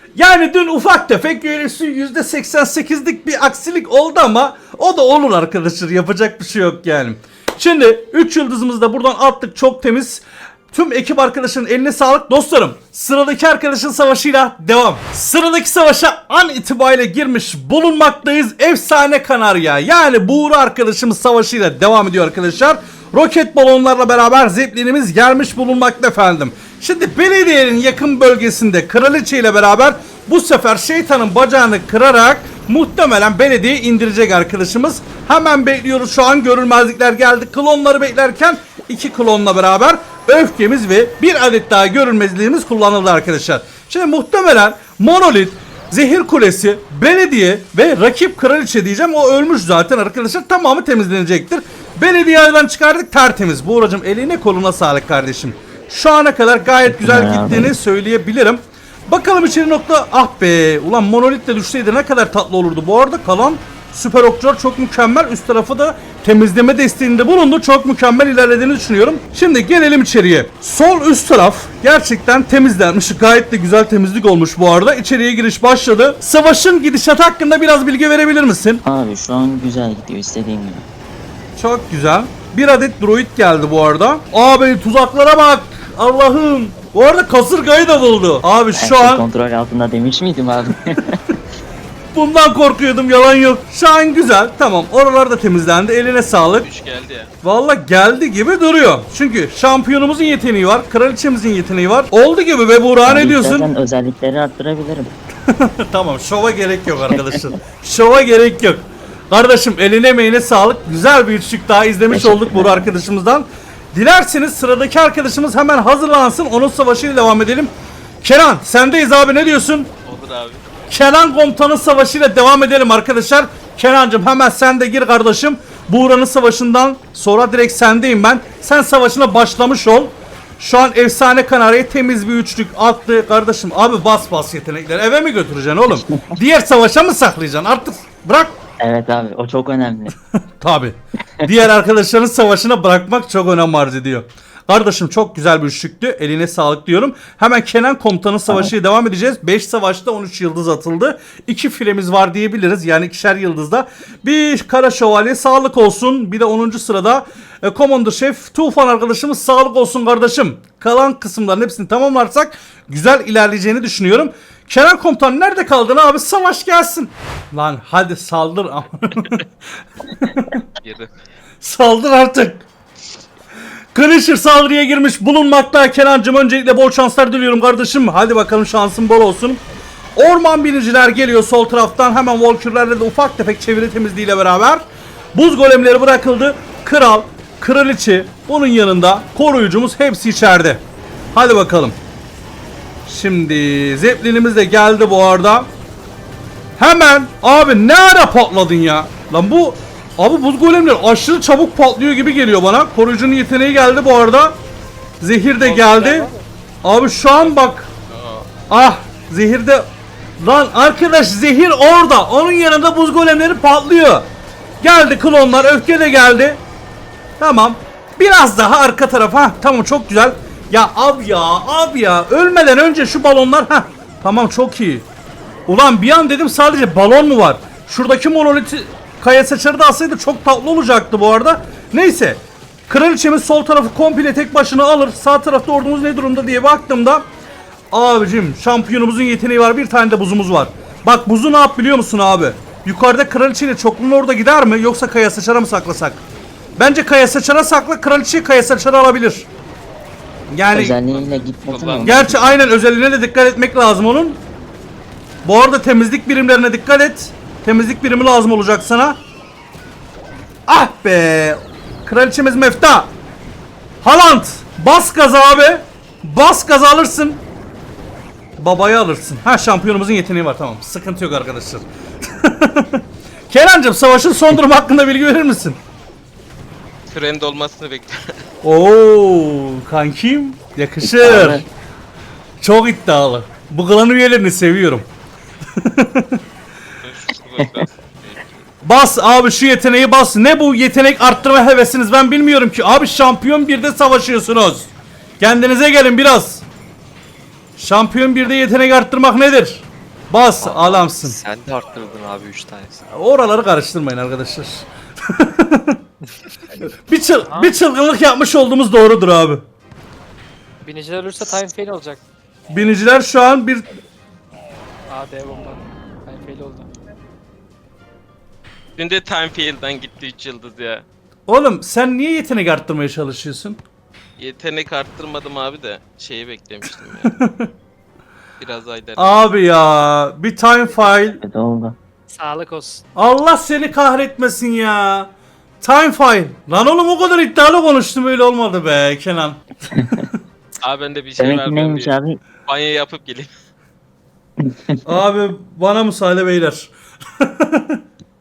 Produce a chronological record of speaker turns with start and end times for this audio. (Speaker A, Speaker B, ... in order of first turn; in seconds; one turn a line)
Speaker A: 0.2-78.8
Speaker B: 56.8-57.8
Speaker B: 78.8-80.8
Speaker A: 81.6-89.2
Speaker B: 88.7-91.2
Speaker A: 92.1-96.7
Speaker C: 96.5-97.3
Speaker A: 97.4-103.7
Speaker B: 103.0-105.1
Speaker A: 105.5-117.7
Speaker B: 107.0-107.5
Speaker B: 112.1-112.9
Speaker A: 118.2-119.9
Speaker C: 120.1-120.6
Speaker A: 120.9-138.6
Speaker B: 135.9-136.2
Speaker B: 138.8-140.1
Speaker A: 140.6-169.5
Speaker A: 170.1-170.6
Speaker C: 170.8-171.1
Speaker A: 171.6-172.7
Speaker A: 173.9-179.6
Speaker A: 180.2-184.8
Speaker A: 185.3-190.8
Speaker A: 191.3-192.0
Speaker A: 193.1-195.7
Speaker A: 196.8-204.6
Speaker A: 205.2-206.3
Speaker D: 205.6-206.4
Speaker A: 206.8-207.9
Speaker C: 208.1-208.5
Speaker A: 208.7-209.9
Speaker A: 210.4-214.3
Speaker A: 214.8-216.6
Speaker A: 217.4-225.1
Speaker A: 225.7-237.2
Speaker A: 237.9-246.2
Speaker A: 246.8-249.5
Speaker A: 250.5-251.0
Speaker B: 250.7-252.6
Speaker C: 251.1-252.5
Speaker A: 252.0-254.4
Speaker A: 255.4-259.2
Speaker A: 260.7-263.1
Speaker A: 264.0-267.4
Speaker A: 268.6-275.8
Speaker C: 277.1-278.3
Speaker A: 278.6-281.6
Speaker B: 281.0-281.7
Speaker A: 282.6-285.1
Speaker A: 285.8-286.4
Speaker C: 287.0-288.6
Speaker A: 288.8-296.6
Speaker A: 297.8-301.4
Speaker E: 300.6-302.9
Speaker A: 303.1-306.0
Speaker A: 307.1-309.6
Speaker D: 307.5-307.7
Speaker D: 310.8-312.2
Speaker A: 312.7-313.8
Speaker D: 315.1-316.9
Speaker C: 319.0-321.0
Speaker A: 321.5-323.8
Speaker C: 324.4-327.3
Speaker A: 327.2-327.7
Speaker C: 328.6-329.4
Speaker A: 329.2-331.4
Speaker B: 331.4-331.9
Speaker D: 332.3-333.0
Speaker A: 333.2-335.3
Speaker A: 335.8-339.6
Speaker B: 339.9-340.3
Speaker C: 340.8-342.1
Speaker B: 341.4-342.4
Speaker C: 342.7-343.5
Speaker B: 344.6-345.0
Speaker A: 345.1-348.0